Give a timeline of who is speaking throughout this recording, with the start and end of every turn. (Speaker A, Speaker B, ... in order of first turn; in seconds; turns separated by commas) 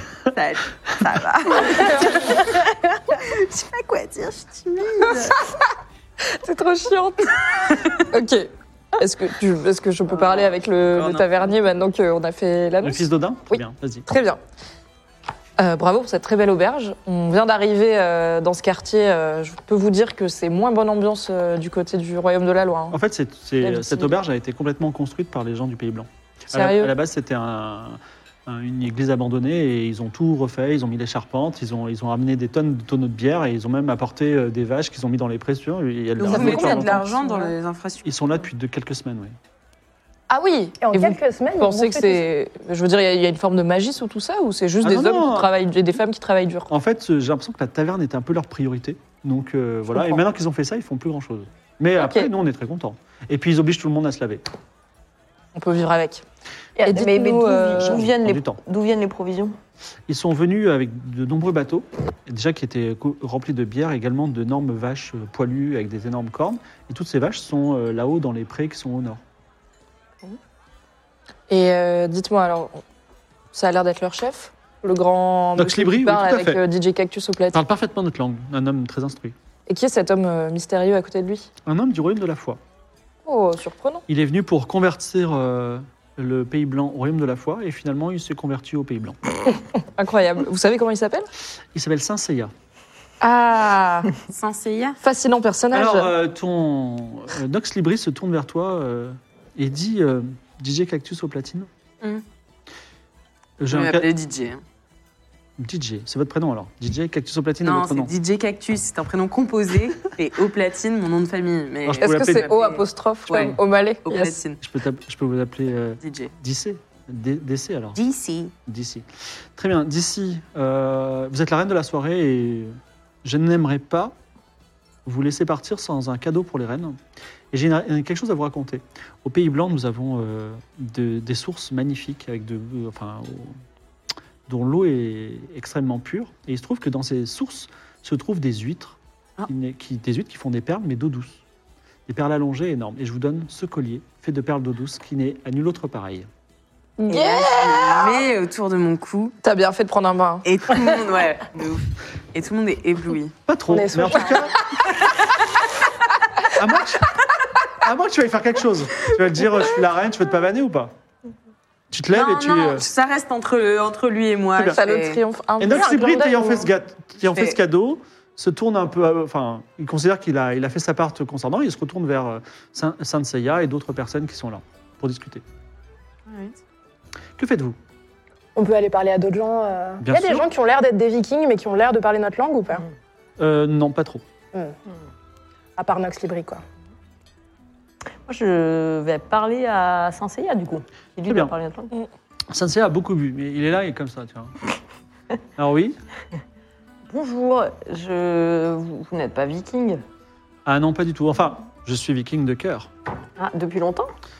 Speaker A: 0.3-5.4, Speaker B: 6.3-7.3, Speaker A: 7.6-8.0, Speaker B: 8.0-14.4, Speaker A: 10.2-11.5, Speaker C: 12.8-14.1, Speaker B: 15.6-23.0, Speaker C: 22.9-37.2, Speaker B: 23.6-24.2, Speaker B: 26.5-26.9, Speaker A: 36.2-38.5, Speaker B: 36.3-37.5, Speaker C: 38.0-39.4, Speaker B: 40.3-46.7, Speaker D: 40.8-42.2, Speaker C: 44.8-45.5, Speaker C: 46.7-54.5, Speaker B: 52.0-52.3, Speaker B: 55.5-56.2, Speaker E: 56.8-59.5, Speaker B: 56.8-58.1, Speaker C: 57.8-58.6, Speaker C: 60.1-69.2, Speaker B: 71.5-72.8, Speaker B: 73.5-77.6, Speaker C: 75.6-76.6, Speaker C: 77.5-79.3, Speaker B: 79.7-81.5, Speaker C: 81.7-82.6, Speaker B: 83.3-84.0, Speaker C: 84.1-89.2, Speaker B: 90.0-91.3, Speaker C: 91.7-92.5, Speaker B: 93.2-94.1, Speaker A: 94.3-95.0, Speaker B: 95.0-96.1, Speaker C: 95.7-101.7, Speaker C: 103.6-104.1, Speaker A: 103.7-104.6, Speaker C: 105.6-108.1, Speaker A: 107.6-114.6, Speaker C: 111.8-112.5, Speaker B: 112.0-114.4, Speaker C: 114.6-118.0, Speaker A: 116.0-116.3, Speaker A: 118.0-118.5, Speaker C: 118.7-124.2, Speaker C: 125.0-127.0, Speaker C: 127.5-133.6, Speaker C: 134.5-141.4, Speaker C: 142.1-146.3, Speaker B: 147.0-148.2, Speaker A: 147.1-149.4, Speaker B: 149.4-150.5, Speaker A: 150.4-153.3, Speaker C: 153.5-154.6, Speaker D: 153.7-154.5, Speaker C: 156.5-160.9, Speaker C: 161.9-162.8, Speaker A: 162.1-165.2, Speaker B: 164.6-166.6, Speaker C: 165.6-175.4, Speaker A: 167.2-167.6, Speaker A: 176.3-176.6, Speaker C: 177.4-177.8, Speaker D: 178.6-182.9, Speaker C: 180.0-180.5, Speaker C: 183.4-184.2, Speaker D: 185.8-186.6, Speaker E: 188.3-191.9, Speaker C: 191.3-191.5, Speaker C: 192.5-194.6, Speaker C: 195.6-196.0, Speaker E: 197.1-200.0, Speaker C: 200.7-202.9, Speaker E: 203.4-204.1